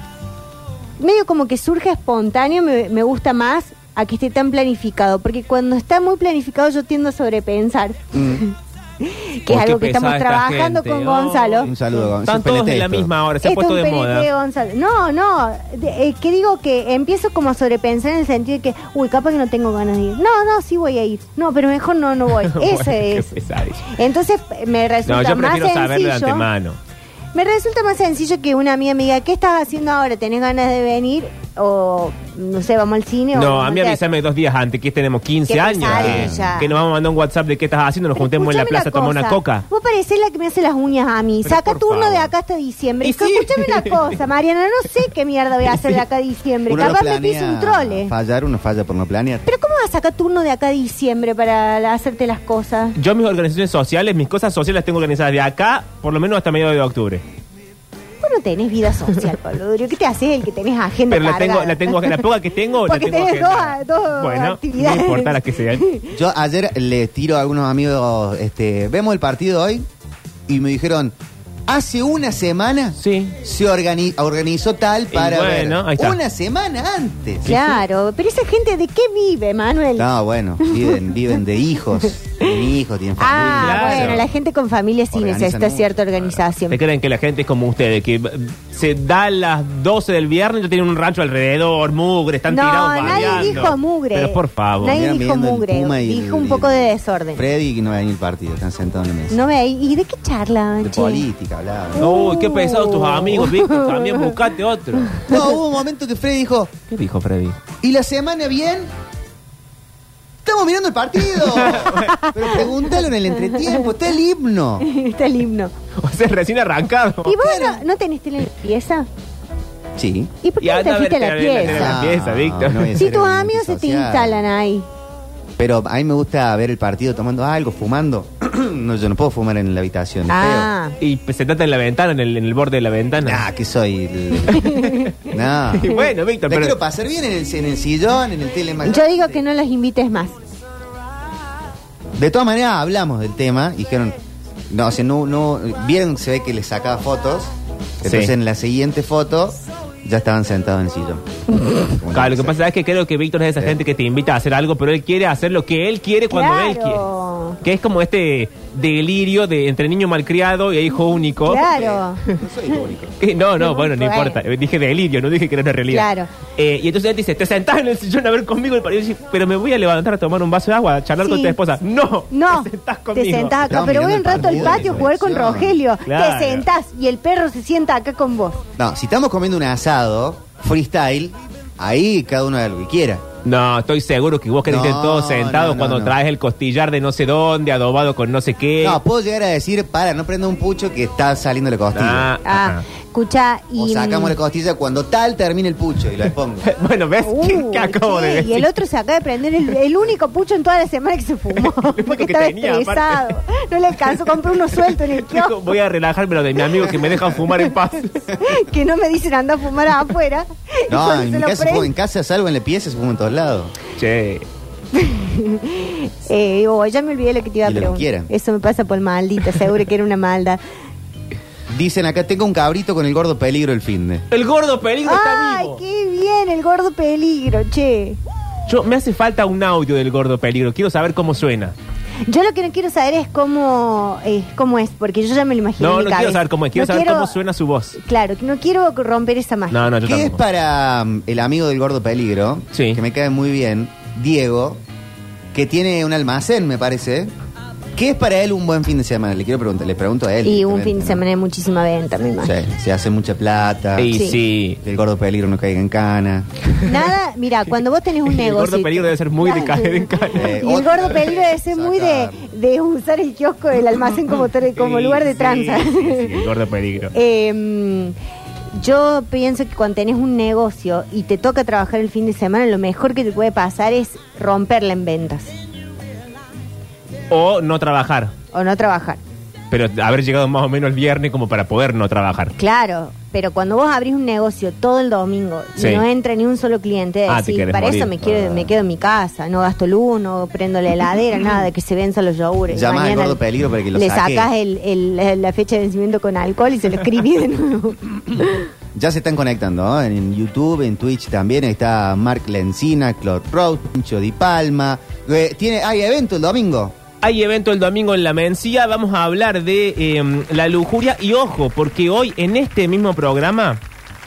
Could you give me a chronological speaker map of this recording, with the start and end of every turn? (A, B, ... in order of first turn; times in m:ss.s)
0:01.0-0:11.7 A
0:08.1-0:08.4 B
0:09.5-0:14.3 C
0:11.6-0:13.1 B
0:13.4-0:23.3 A
0:22.4-0:23.9 C
0:23.9-0:26.5 A
0:25.0-0:26.8 C
0:27.3-0:34.0 A
0:33.3-0:39.6 C
0:35.5-0:36.7 A
0:35.9-0:36.6 B
0:38.2-0:48.1 A
0:41.4-0:42.3 C
0:43.0-0:44.1 C
0:46.7-0:49.4 B
0:49.4-0:53.0 A
0:53.0-0:57.2 C
0:58.2-1:02.2 A
1:01.1-1:05.8 C
1:02.8-1:06.1 A
1:06.1-1:09.8 B
1:10.5-1:11.1 B
1:11.7-1:17.6 B
1:13.0-1:13.4 C
1:15.1-1:16.2 C
1:17.4-1:20.1 A
1:20.0-1:24.2 B
1:20.6-1:21.0 A
1:23.2-1:26.8 A
1:23.4-1:24.2 C
1:25.1-1:26.0 B
1:26.7-1:35.0 C
1:32.5-1:37.4 A
1:33.0-1:33.7 B
1:34.8-1:39.4 B
1:39.3-1:41.2 A
1:40.8-1:42.1 B
1:42.0-1:45.2 C
1:42.0-1:44.3 A
1:45.2-1:46.7 B
1:46.9-1:47.6 C
1:47.8-1:48.9 B
1:50.4-1:54.9 B
1:51.3-1:52.3 C
1:52.2-1:52.8 A
1:53.5-1:53.9 A
1:54.8-1:55.7 A
1:56.0-1:57.4 C
1:57.2-1:59.1 A
1:57.4-1:57.8 B
2:00.0-2:00.3 B
2:00.4-2:02.0 A
2:00.6-2:03.0 C
2:01.6-2:04.4 B
2:03.0-2:04.9 A
2:05.6-2:10.7 B
2:10.3-2:11.0 A
2:11.0-2:13.4 C
2:13.2-2:14.7 B
2:14.5-2:15.1 A
2:14.5-2:15.1 C
2:15.2-2:19.4 B
2:15.7-2:16.8 C
2:18.8-2:20.3 A
2:22.2-2:24.2 B
2:24.7-2:27.5 B
2:28.0-2:32.6 B
2:28.0-2:28.3 C
2:31.6-2:31.8 A
2:32.1-2:37.0 C
2:36.3-2:37.6 A
2:37.6-2:42.4 C
2:41.4-2:42.2 A
2:41.7-2:43.2 B
2:43.2-2:55.1 C
2:43.6-2:44.4 A
2:45.9-2:46.3 A
2:51.2-2:51.6 A
2:52.3-2:58.6 A
2:53.7-2:55.8 B
2:56.0-2:56.7 C
2:58.8-3:03.2 B
3:03.4-3:09.0 C
3:04.7-3:06.1 B
3:08.8-3:12.3 B
3:11.9-3:12.8 C
3:12.4-3:14.3 A
3:13.8-3:16.7 B
3:16.6-3:18.7 C
3:17.2-3:25.5 A
3:21.6-3:23.3 C
3:24.8-3:28.3 C
3:28.4-3:31.9 A
3:30.9-3:33.7 B
3:34.0-3:34.4 C
3:34.9-3:40.6 A
3:37.6-3:38.3 B
3:41.7-3:44.2 B
3:44.3-3:45.8 C
3:45.0-3:48.2 A
3:48.7-3:51.7 C
3:52.2-3:57.4 A
3:55.8-3:58.0 C
3:58.0-3:59.9 A
3:59.7-4:00.4 C
4:00.0-4:04.8 B
4:02.7-4:03.0 C
4:05.5-4:07.3 B
4:08.0-4:11.2 B
4:10.4-4:12.5 A
4:12.4-4:16.5 B
4:14.0-4:14.8 C
4:14.1-4:14.4 A
4:16.8-4:26.5 A
4:18.2-4:20.6 C
4:20.3-4:22.5 B
4:24.7-4:27.1 C
4:27.1-4:28.1 A
4:28.8-4:35.5 A
4:37.3-4:38.3 C
4:38.5-4:39.2 A
4:39.7-4:42.6 C
4:42.6-4:53.4 A
4:45.8-4:46.0 C
4:47.3-4:48.2 C
4:48.2-4:48.6 B
4:52.7-4:54.5 B
4:53.9-4:58.7 A
4:58.9-5:06.9 B
5:07.2-5:13.8 C